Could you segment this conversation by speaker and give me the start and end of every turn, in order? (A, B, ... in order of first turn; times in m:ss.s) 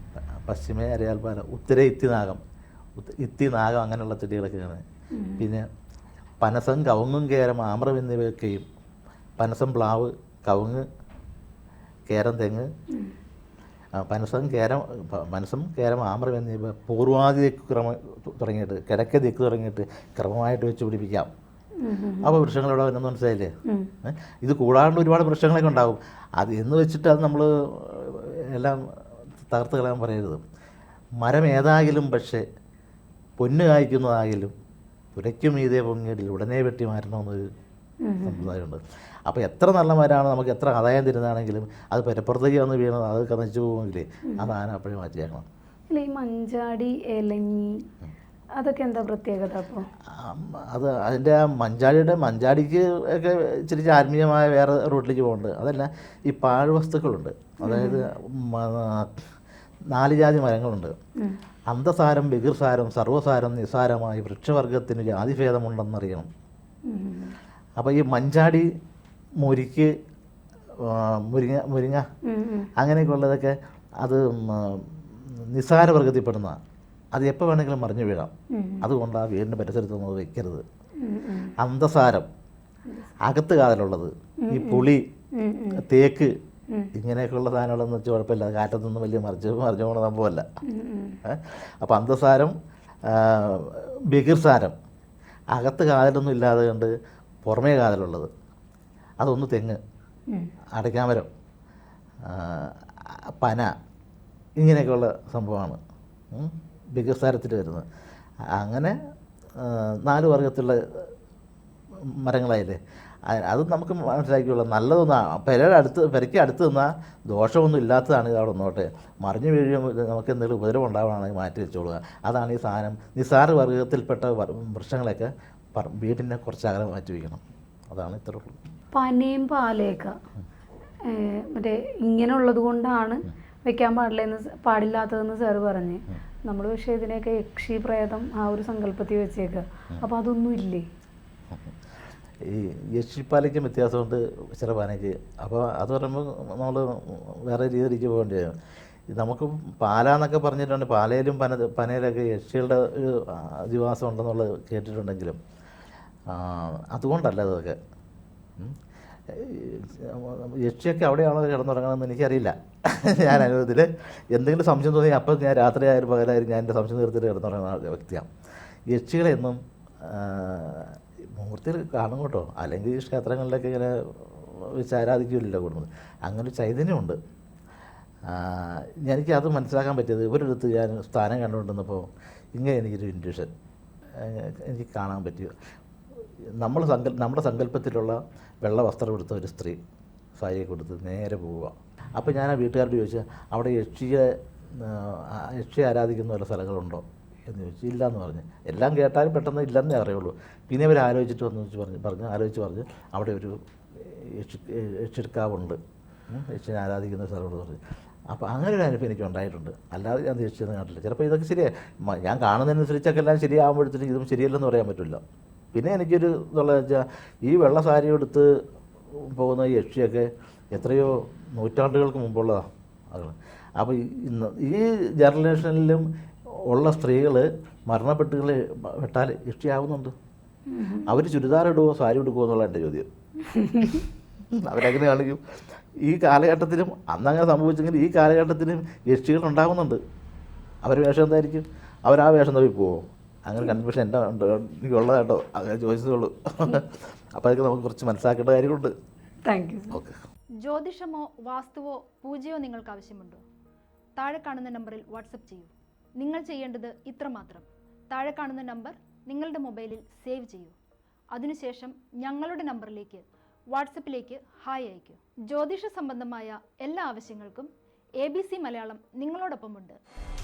0:00.4-0:02.4 A
0:03.0-0:04.8 A
0:05.1-0:05.4 B
0:05.4-0:05.6 A
0:06.4-0:08.6 A
0:09.4-0:10.8 A
0:12.1-0:12.7 A
0:14.0-0:21.3 A
0:21.8-0:22.4 B
0:22.2-0:23.5 A
0:24.0-0:28.8 A
0:29.5-0:30.4 A
0:31.2-0:32.4 A
0:33.4-0:34.5 A
0:35.1-0:37.4 A
0:38.0-0:38.5 B
0:38.2-0:45.4 A
0:44.3-0:44.5 B
0:45.9-0:47.7 B
0:48.6-0:49.8 B
0:50.1-0:59.1 A
0:57.6-0:58.0 B
0:59.9-1:00.9 A
1:01.7-1:06.3 A
1:06.9-1:07.4 B
1:07.8-1:08.7 A
1:09.4-1:09.9 A
1:10.8-1:12.0 A
1:12.2-1:12.7 B
1:12.8-1:14.9 A
1:15.5-1:16.6 A
1:17.1-1:18.3 A
1:18.5-1:18.8 B
1:18.8-1:20.6 A
1:21.0-1:21.5 B
1:21.6-1:22.3 A
1:22.9-1:23.1 B
1:23.2-1:25.0 A
1:24.4-1:25.8 B
1:25.8-1:26.3 A
1:26.9-1:30.4 A
1:30.7-1:31.2 B
1:31.2-1:32.5 A
1:33.0-1:34.7 A
1:35.5-1:36.9 A
1:37.4-1:38.3 A
1:39.2-1:39.8 A
1:40.8-1:41.3 A
1:42.2-1:43.7 A
1:44.6-1:45.8 A
1:46.3-1:47.8 A
1:48.5-1:49.0 A
1:49.6-1:51.0 A
1:52.2-2:08.6 A
2:08.9-2:10.1 B
2:11.1-2:20.8 B
2:22.4-2:28.5 A
2:29.1-2:35.4 A
2:36.3-2:37.8 A
2:39.3-2:48.3 A
2:48.9-2:57.2 A
2:58.2-3:03.5 A
3:04.2-3:05.5 A
3:06.6-3:09.8 A
3:10.4-3:25.8 A
3:26.3-3:35.2 A
3:35.7-3:38.5 A
3:39.2-3:46.0 A
3:46.7-3:50.1 A
3:50.7-3:51.1 B
3:51.0-3:53.1 A
3:53.5-3:54.0 B
3:54.5-3:55.4 A
3:56.0-4:00.0 A
4:00.8-4:08.9 A
4:09.4-4:10.0 B
4:09.9-4:10.2 A
4:10.6-4:13.4 C
4:14.2-4:20.8 C
4:21.3-4:27.7 C
4:28.2-4:30.0 C